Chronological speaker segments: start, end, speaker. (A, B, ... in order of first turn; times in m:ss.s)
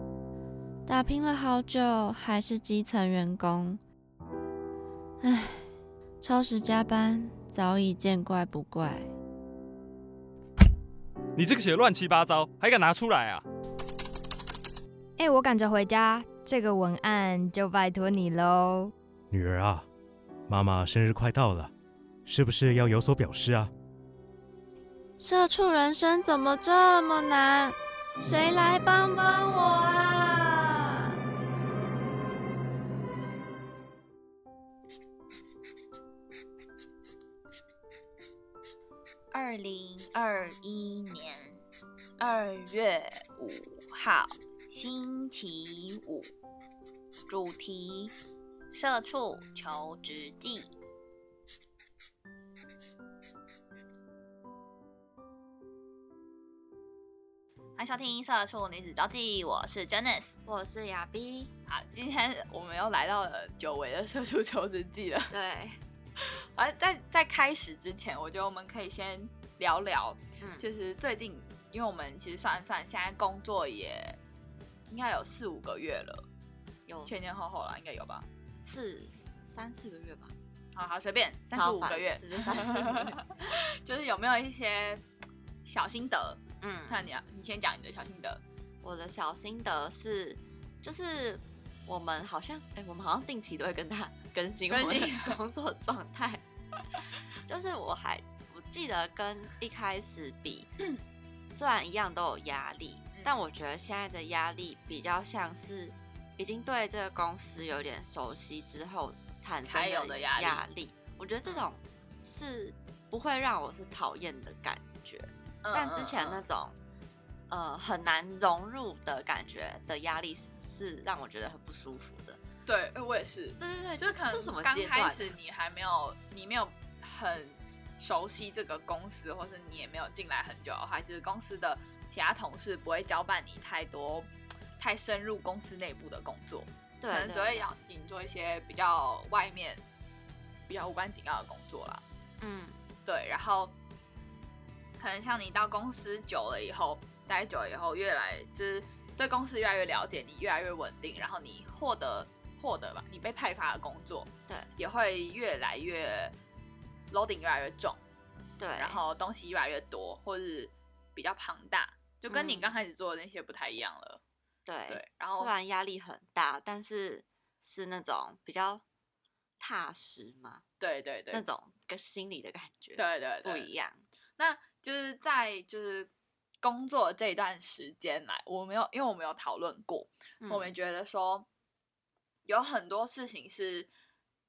0:00.8-0:03.8 A
0:05.2-0:05.7 A
0:06.2-0:09.1 A
0:11.4-0:13.4 B
0:15.2-0:18.9 C
0:19.3-0:19.8 D
0:20.5-0:21.7 D
0:22.2-0:23.7 D
0:25.2-0:31.2 A
0:39.3-0:41.6 E
0:42.2-0:46.3 E
0:47.3-0:48.1 E
0:48.7-0:50.7 E
0:57.8-1:00.4 E
1:00.4-1:01.5 A
1:01.7-1:05.3 E
1:05.3-1:05.8 A
1:06.2-1:14.2 E
1:10.4-1:10.6 A
1:14.9-1:16.2 E
1:16.9-1:17.1 A
1:17.0-1:18.2 E
1:18.6-1:20.3 A
1:20.7-1:25.0 E
1:21.5-1:23.5 A
1:25.6-1:28.4 E
1:26.6-1:27.0 A
1:28.8-1:36.4 A
1:34.7-1:35.4 E
1:37.4-1:40.7 A
1:41.5-1:56.8 A
1:49.6-1:50.6 E
1:55.6-1:56.4 E
1:57.5-2:02.4 A
2:02.7-2:19.8 E
2:03.6-2:05.3 A
2:17.0-2:17.6 A
2:20.7-2:22.0 E
2:22.4-2:22.8 A
2:23.0-2:23.7 E
2:25.0-2:36.3 E
2:37.1-2:38.0 E
2:38.6-2:39.0 A
2:38.8-2:44.2 E
2:42.3-2:42.8 A
2:44.6-2:48.8 A
2:44.9-2:45.5 E
2:49.6-2:50.6 A
2:50.8-2:51.4 E
2:51.3-2:54.0 A
2:53.0-2:53.7 E
2:54.4-2:56.1 E
2:56.6-3:01.5 E
3:00.4-3:00.7 A
3:02.4-3:03.9 E